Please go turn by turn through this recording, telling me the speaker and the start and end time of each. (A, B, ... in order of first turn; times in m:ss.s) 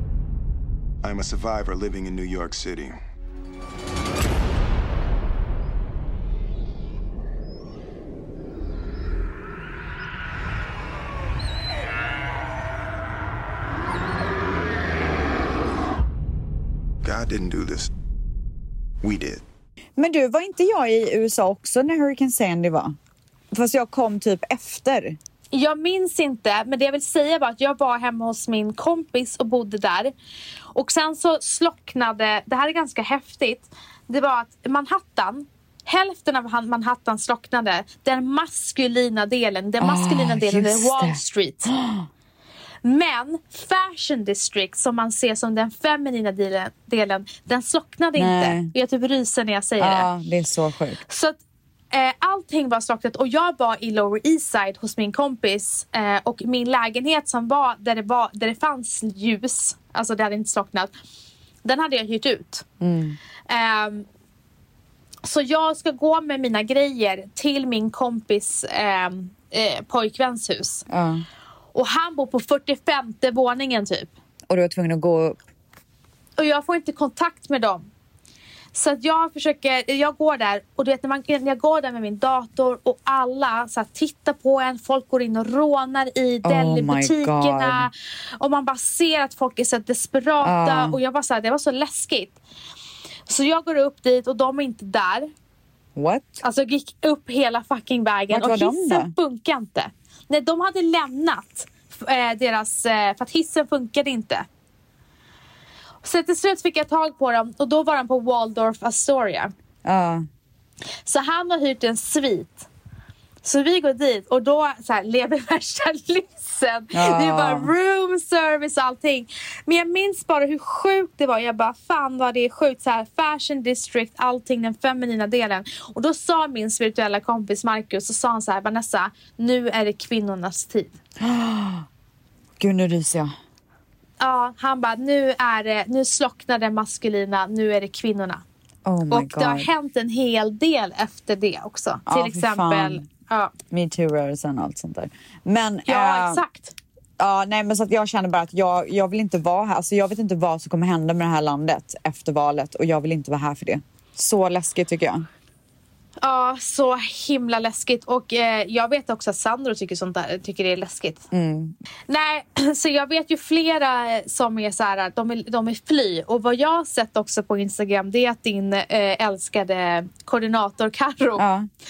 0:01.0-0:03.0 A
0:17.0-0:17.9 A
0:19.0-0:19.4 A
0:20.0-0:23.0 B
0:23.5-0:25.2 B
0:25.5-0:30.1 C
0:30.7-0:41.7 C
0:39.8-0:42.1 B
0:42.8-0:50.1 C
0:48.2-0:48.7 B
0:49.8-0:51.0 B
0:51.1-0:51.4 C
0:51.9-1:00.9 C
1:01.6-1:02.6 C
1:02.8-1:03.2 B
1:03.5-1:04.0 C
1:05.2-1:10.8 C
1:10.9-1:11.2 B
1:11.7-1:14.1 C
1:14.5-1:15.4 B
1:16.4-1:17.9 C
1:18.7-1:32.4 C
1:26.4-1:27.9 B
1:30.4-1:31.0 B
1:33.3-1:35.3 C
1:36.0-1:36.4 B
1:36.4-1:44.4 C
1:38.3-1:39.1 B
1:46.0-1:49.5 C
1:49.8-1:50.3 B
1:51.0-1:52.7 C
1:53.4-2:10.9 C
1:56.9-1:57.7 B
2:11.2-2:11.9 B
2:12.6-2:13.3 B
2:14.2-2:18.4 C
2:18.8-2:19.7 B
2:19.1-2:23.5 C
2:22.1-2:23.0 B
2:23.7-2:26.4 B
2:25.8-2:26.7 C
2:27.2-2:35.3 B
2:36.2-2:41.2 C
2:41.3-2:41.8 B
2:42.1-2:51.4 C
2:51.4-2:51.7 B